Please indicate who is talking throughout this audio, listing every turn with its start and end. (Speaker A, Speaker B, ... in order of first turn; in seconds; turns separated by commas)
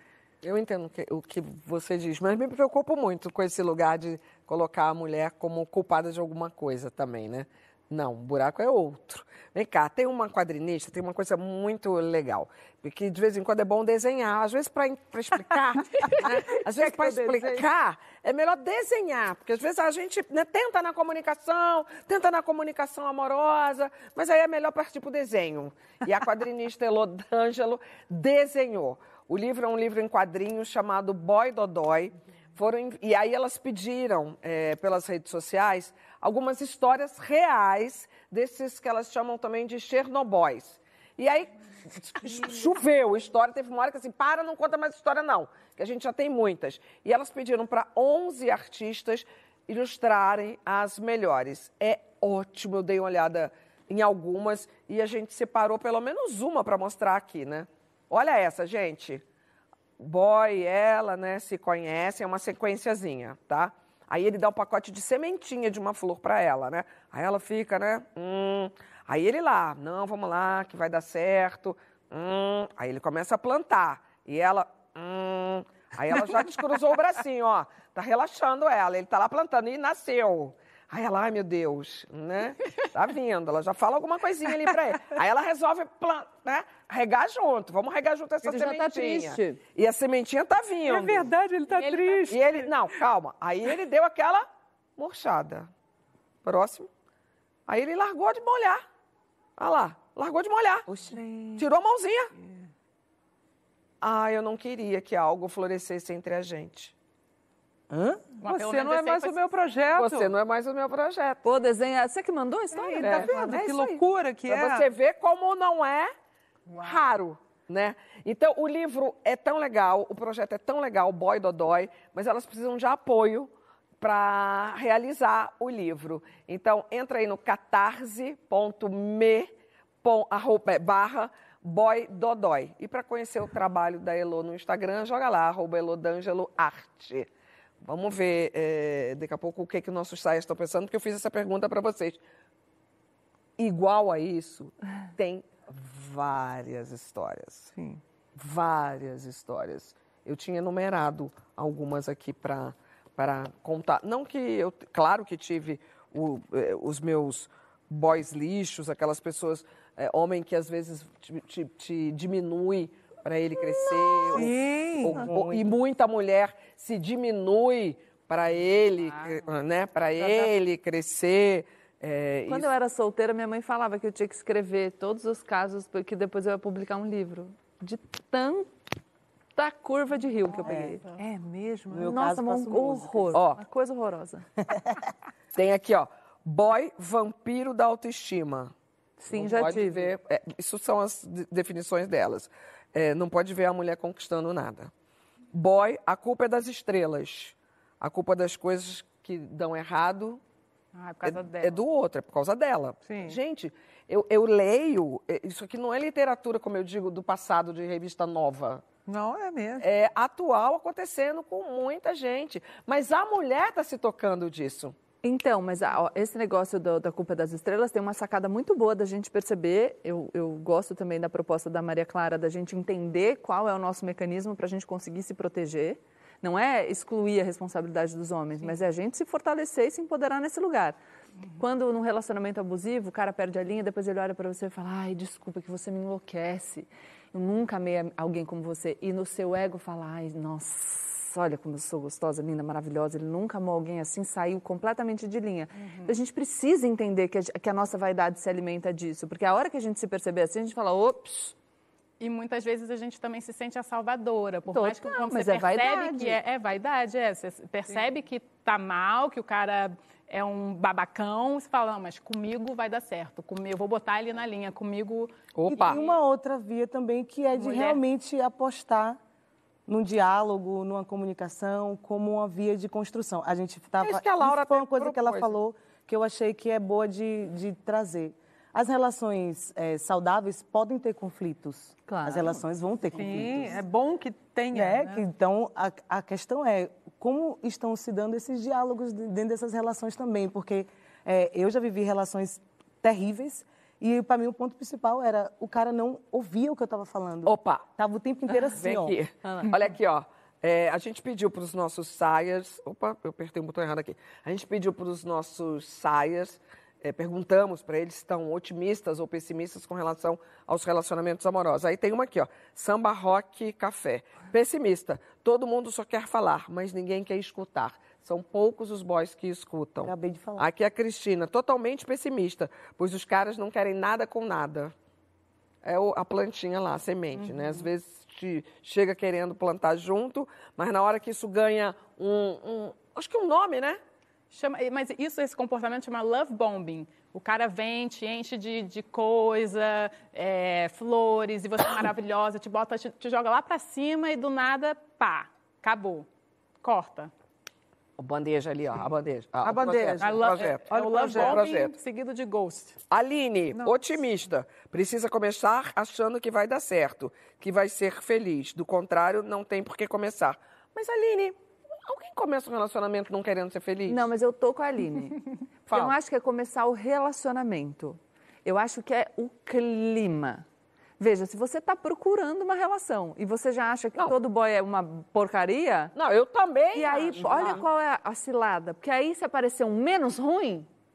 Speaker A: 0.4-59.2, Speaker B: 16.2-17.7, Speaker A: 60.0-91.3, Speaker C: 88.4-89.6, Speaker D: 90.8-92.9, Speaker E: 91.7-92.4, Speaker A: 92.3-94.5, Speaker A: 95.0-95.7, Speaker A: 96.4-96.9, Speaker A: 97.7-98.8, Speaker A: 99.6-100.9, Speaker B: 100.9-101.2, Speaker D: 101.1-101.6, Speaker A: 101.5-102.3, Speaker A: 104.0-106.9, Speaker B: 107.9-108.2, Speaker E: 108.4-109.6, Speaker D: 108.4-110.3, Speaker A: 109.9-111.4, Speaker C: 111.4-113.5, Speaker D: 112.7-114.9, Speaker A: 113.0-116.1, Speaker A: 116.8-129.5, Speaker A: 130.0-137.3, Speaker A: 137.8-142.2, Speaker A: 143.6-147.7, Speaker D: 147.7-148.0, Speaker A: 148.3-172.7, Speaker D: 164.3-165.2, Speaker B: 165.2-165.7, Speaker E: 169.0-169.4, Speaker C: 172.5-178.7, Speaker C: 179.6-181.0, Speaker B: 180.6-181.0, Speaker D: 181.2-182.2, Speaker B: 181.9-183.4, Speaker C: 182.0-184.4, Speaker A: 183.3-183.6, Speaker A: 185.5-188.7, Speaker C: 189.2-190.1, Speaker A: 189.3-194.9, Speaker A: 195.5-200.4, Speaker E: 200.9-201.8, Speaker A: 201.2-208.8, Speaker D: 203.1-203.4, Speaker D: 209.1-209.9, Speaker A: 209.8-214.9, Speaker C: 215.2-231.0, Speaker C: 231.6-251.5, Speaker E: 245.8-246.1, Speaker E: 252.2-266.2, Speaker C: 254.7-256.4, Speaker A: 265.5-266.0, Speaker B: 265.8-269.2, Speaker E: 267.5-268.0, Speaker B: 269.9-283.8, Speaker A: 274.0-275.5, Speaker C: 282.1-282.6, Speaker D: 283.1-285.2, Speaker B: 284.7-299.1, Speaker A: 297.4-297.8, Speaker A: 298.7-324.9, Speaker C: 299.4-299.7, Speaker B: 320.0-320.6, Speaker A: 325.8-334.0, Speaker E: 334.5-346.3, Speaker E: 346.8-347.3, Speaker A: 348.2-351.9, Speaker D: 349.6-351.7, Speaker E: 350.2-353.0, Speaker A: 353.1-364.3, Speaker C: 364.1-370.6, Speaker A: 365.9-366.1, Speaker C: 371.2-376.1, Speaker A: 376.1-377.9, Speaker C: 376.9-380.9